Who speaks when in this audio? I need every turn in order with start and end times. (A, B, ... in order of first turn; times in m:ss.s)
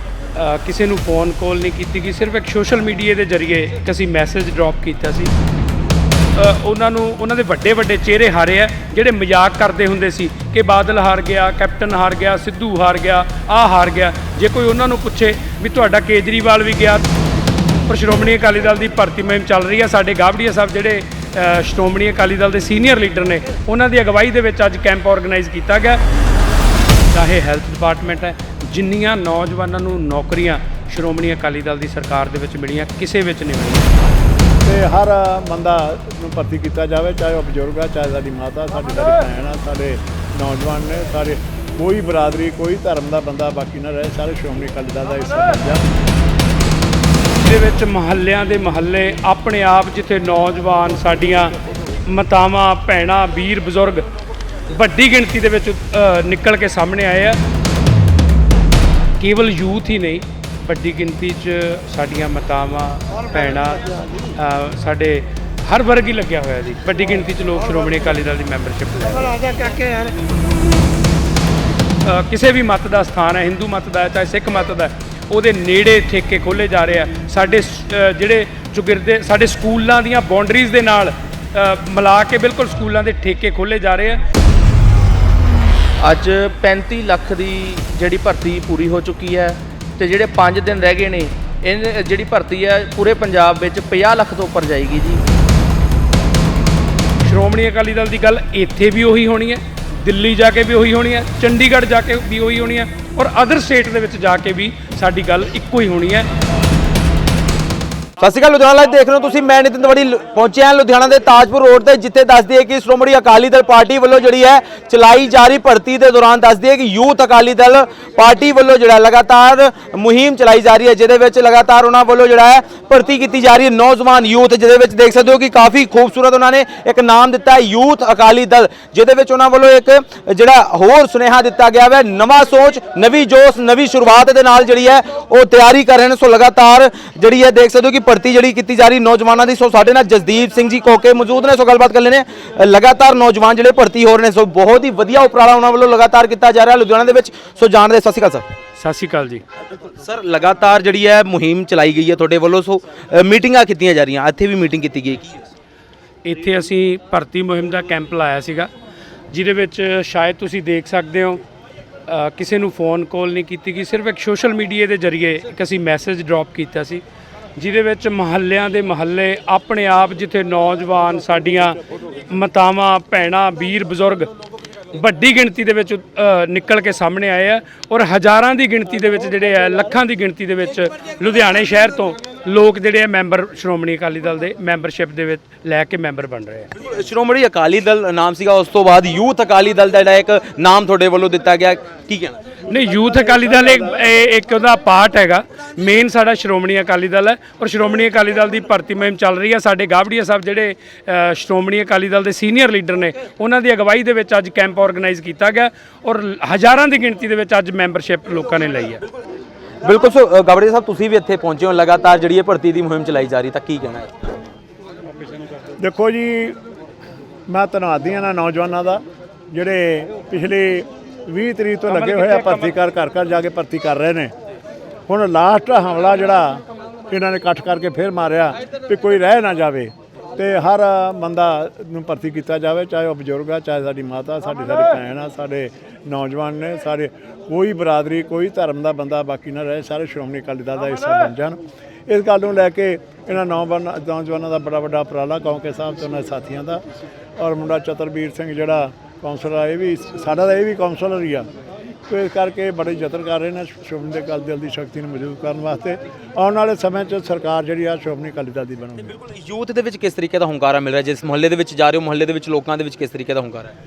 0:00.4-0:05.3 A
0:06.4-0:17.1 A
0:17.9-0:26.0 A
0:27.1-0:33.9 A
0:34.6-0:45.8 B
0:47.4-0:51.6 A
0:52.1-0:54.0 A
0:54.7-0:57.4 A
0:59.2-1:09.7 A
1:12.0-1:24.2 A
1:26.0-1:35.2 C
1:37.2-1:46.3 A
1:48.2-2:28.5 D
2:28.8-2:29.4 A
2:30.0-2:35.5 D
2:36.2-2:38.7 A
2:39.3-2:41.4 A
2:42.1-2:47.0 A
2:47.6-2:54.3 A
2:54.9-3:06.7 A
3:06.8-3:12.4 D
3:12.7-3:29.0 A
3:29.8-3:34.1 D
3:35.8-3:36.6 B
3:37.5-3:44.3 B
3:41.9-3:42.8 A
3:45.1-4:06.8 B
4:07.4-4:11.5 B
4:12.1-4:19.1 B
4:19.1-4:23.7 D